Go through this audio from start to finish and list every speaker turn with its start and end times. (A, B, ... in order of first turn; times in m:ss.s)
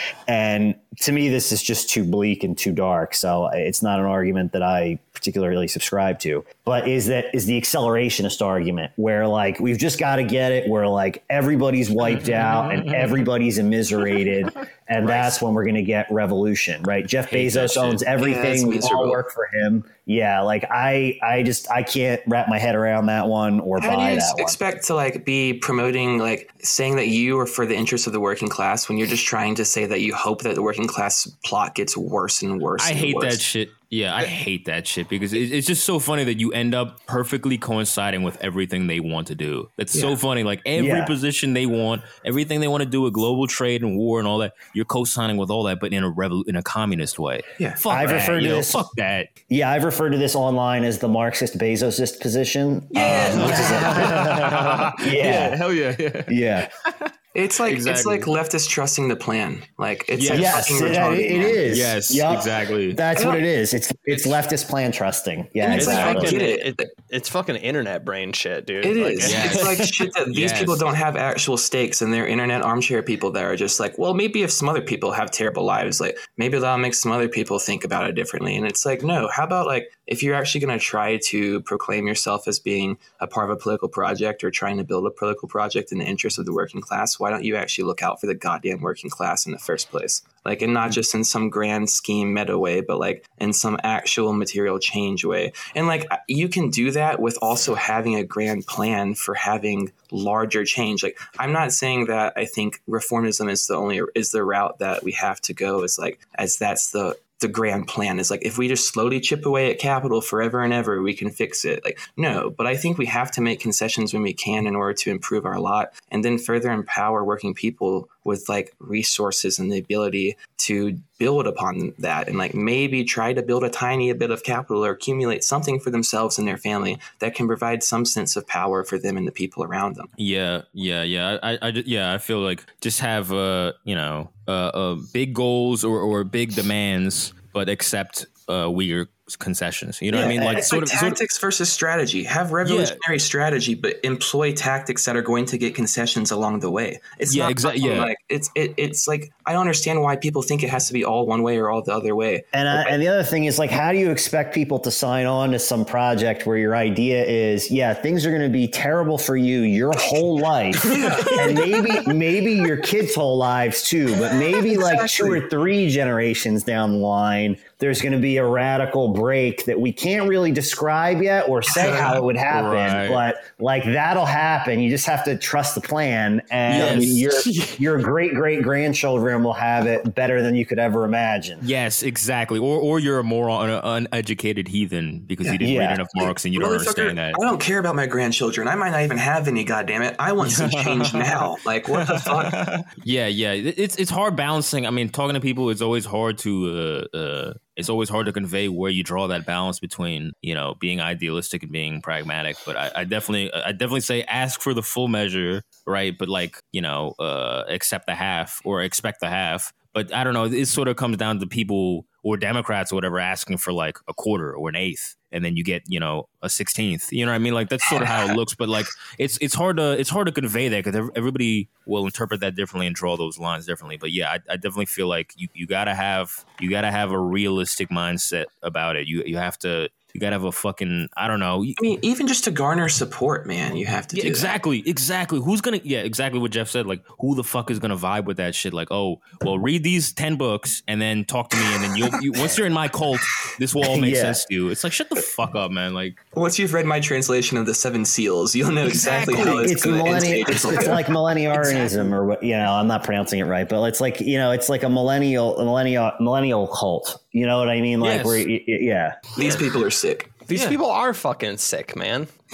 0:00.3-0:24.6 A
0:12.0-0:13.1 B
0:15.0-0:15.3 C
0:17.3-0:18.0 B
0:18.2-0:19.2 C
0:23.8-0:33.4 C
0:32.8-0:49.3 B
0:40.8-0:41.1 A
0:47.9-0:48.9 A
0:49.5-0:55.6 A
0:52.9-0:57.1 B
0:53.0-0:53.8 C
0:56.3-0:56.7 A
0:57.3-1:01.7 C
0:57.6-0:58.3 B
1:00.1-1:03.0 B
1:00.3-1:06.4 A
1:03.1-1:03.4 C
1:05.6-1:09.9 D
1:05.7-1:06.8 C
1:08.8-2:10.1 C
1:09.2-1:10.8 B
2:10.2-2:21.2 B
2:20.1-2:33.0 C
2:22.6-2:23.0 B
2:27.3-2:28.1 B
2:32.5-3:01.6 A
2:40.9-2:41.8 C
2:41.0-2:41.3 B
2:44.7-2:45.4 C
2:51.8-2:52.2 C
2:52.5-2:53.2 B
2:56.7-2:57.8 B
3:01.6-3:07.4 B
3:05.6-3:06.0 A
3:06.2-3:12.6 C
3:10.4-3:51.8 B
3:51.8-3:54.6 C
3:54.1-4:06.2 B
4:03.8-4:04.4 A
4:06.3-4:12.0 C
4:08.9-4:19.3 A
4:09.1-4:09.5 B
4:18.0-4:18.5 B
4:19.4-4:20.3 C
4:20.5-4:22.3 D